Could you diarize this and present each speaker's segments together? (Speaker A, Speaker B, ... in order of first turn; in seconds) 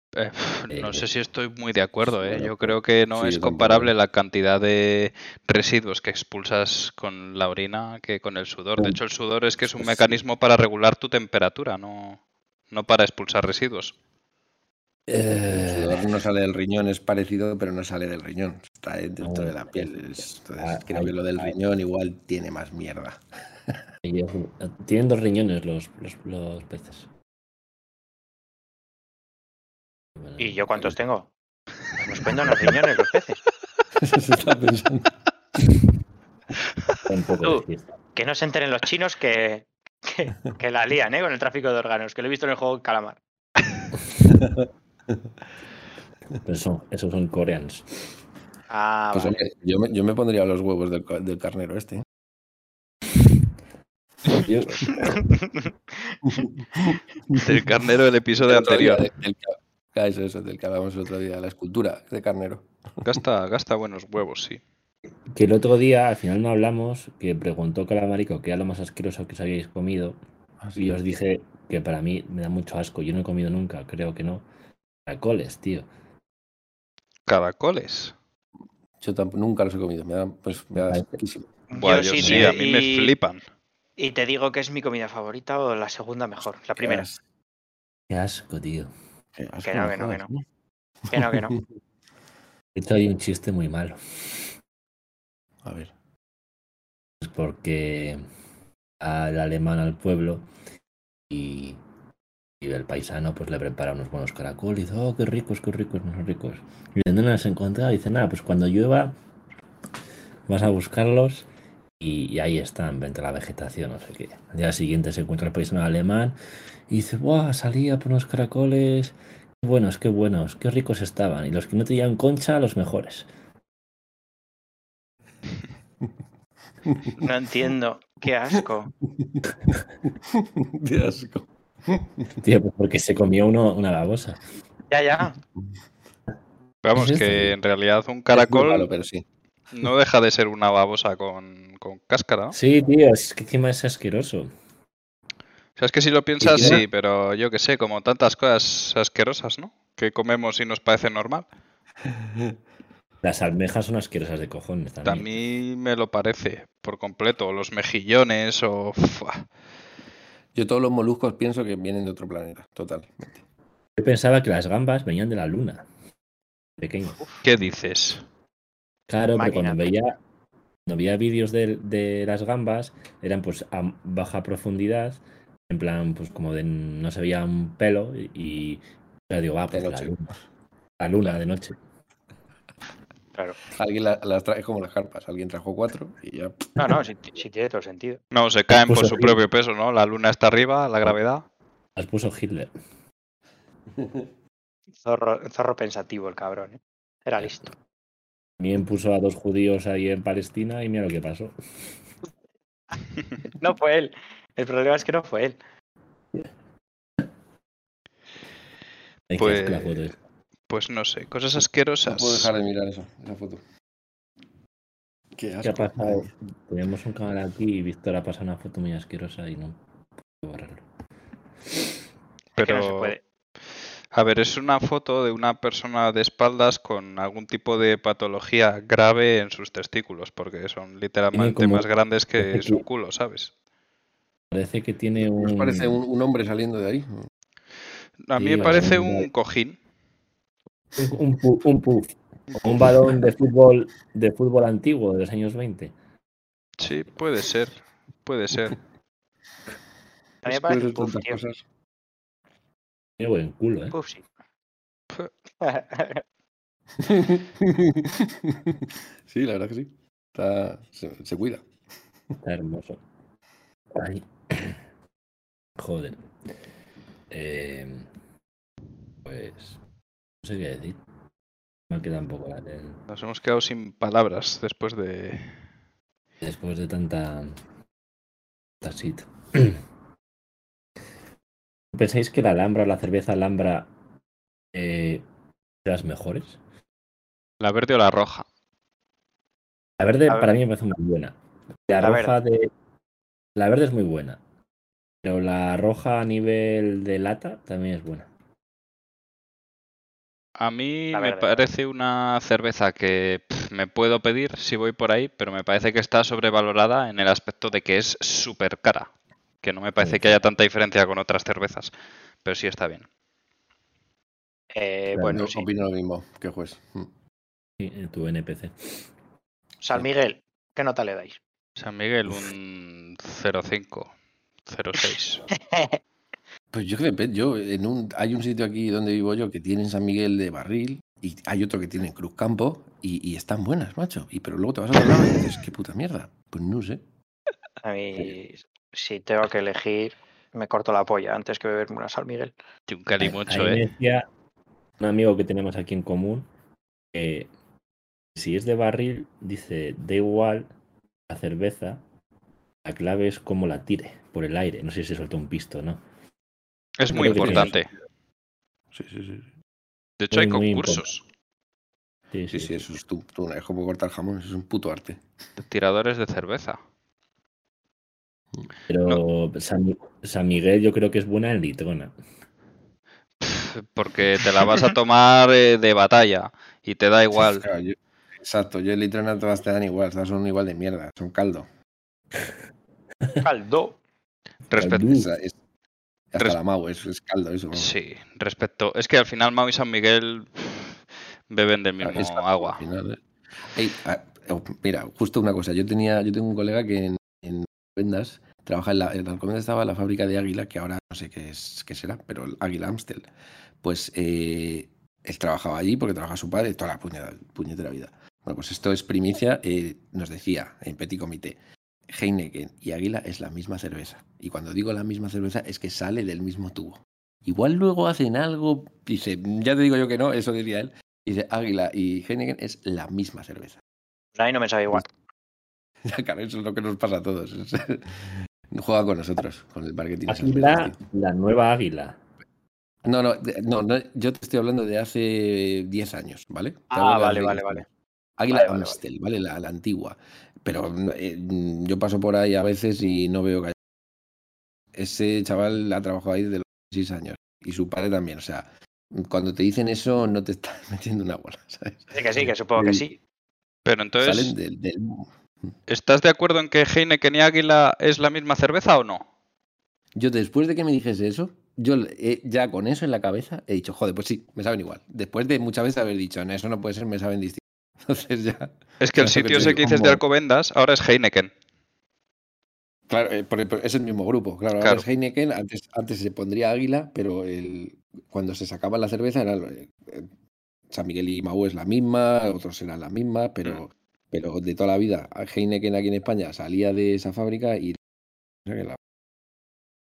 Speaker A: 0.1-13.9, 57.3-59.1, 63.0-64.6, 77.3-78.1, 81.8-83.4, 136.8-138.9, 139.7-142.6, 145.8-151.5, 155.1-159.5, 167.4-168.2, 188.3-191.4, 209.4-210.1, 210.7-212.5, 222.6-223.2, 224.1-233.5, 238.3-239.8, 242.5-242.9, 246.8-248.8, 273.1-275.6, 287.6-288.5, 300.6-309.1, 309.6-311.9, 312.4-313.1, 321.8-324.1, 324.7-325.4, 342.9-343.8, 357.0-357.9, 360.2-361.2, 365.6-366.8, 373.4-377.6, 384.7-385.1, 387.7-392.8, 453.9-454.6, 455.9-459.2, 469.0-471.5
Speaker B: 0.7-1.1, 15.1-16.1, 19.2-21.5, 24.0-27.1, 30.2-30.6, 37.1-37.9, 46.4-47.9, 54.3-55.2, 65.3-70.2, 70.8-74.5, 75.1-75.9, 80.8-81.2, 82.2-82.5, 88.1-88.9, 92.8-94.0, 97.2-98.2, 99.0-100.5, 101.3-101.8, 102.6-109.2, 110.5-111.5, 112.0-116.3, 116.9-123.3, 132.4-134.4, 136.9-137.5, 142.5-144.5, 146.6-146.8, 153.2-155.4, 164.0-165.9, 166.8-167.2, 169.1-170.2, 170.9-180.3, 181.0-181.8, 188.8-189.4, 192.0-192.7, 198.6-201.5, 209.3-210.2, 215.6-219.8, 220.4-220.8, 231.3-231.9, 232.4-232.8, 234.5-236.0, 238.4-239.3, 241.0-245.9, 253.2-254.0, 262.4-263.0, 263.9-264.8, 265.8-266.2, 267.3-268.1, 269.2-269.8, 270.4-271.0, 271.9-273.0, 276.4-277.6, 278.8-279.8, 281.9-283.9, 284.7-285.2, 285.8-286.6, 290.0-291.4, 291.9-292.7, 293.6-294.4, 295.2-298.3, 310.0-310.3, 315.1-315.4, 317.8-319.0, 343.2-344.2, 345.0-346.5, 347.1-347.5, 348.4-350.7, 351.3-352.0, 352.9-356.0, 357.1-357.8, 360.3-361.1, 362.3-362.8, 368.9-372.1, 384.7-385.3, 430.3-432.2
Speaker C: 2.0-3.9, 15.3-23.8, 34.0-35.1, 44.2-45.2, 49.1-52.1, 56.3-57.5, 58.5-62.7, 79.0-81.5, 86.8-87.2, 89.3-90.4, 91.1-91.6, 95.6-95.9, 126.9-127.2, 129.1-132.4, 138.3-139.2, 146.4-146.8, 152.1-152.5, 160.6-163.4, 179.7-180.2, 183.7-187.0, 194.0-194.3, 212.1-213.6, 215.3-216.3, 235.2-237.3, 250.4-251.6, 257.0-261.6, 315.3-317.1, 326.7-337.0, 357.1-357.8, 358.9-359.5, 362.5-365.2, 377.3-381.7, 385.0-385.6, 386.3-387.9, 392.0-393.2, 393.7-403.3, 403.8-423.8, 426.0-431.0, 433.0-437.9, 438.4-443.7, 444.9-452.1, 452.8-453.1, 454.2-455.3, 460.2-470.2, 473.1-480.3, 480.9-488.0, 488.6-489.0
Speaker D: 30.4-31.3, 32.0-33.4, 38.2-43.2, 48.7-49.4, 54.9-56.2, 81.7-83.1, 84.0-87.0, 89.7-90.3, 91.1-91.5, 127.2-128.9, 134.9-135.4, 169.3-169.8, 186.8-188.2, 195.0-197.7, 203.6-205.6, 222.6-223.2, 250.4-251.4, 253.9-254.2, 255.6-256.2, 292.0-292.3, 301.1-301.6, 314.7-315.7, 319.8-321.4, 325.7-326.0, 337.8-342.5, 383.4-384.0, 424.4-425.1, 436.9-437.9, 438.5-439.0, 452.1-453.2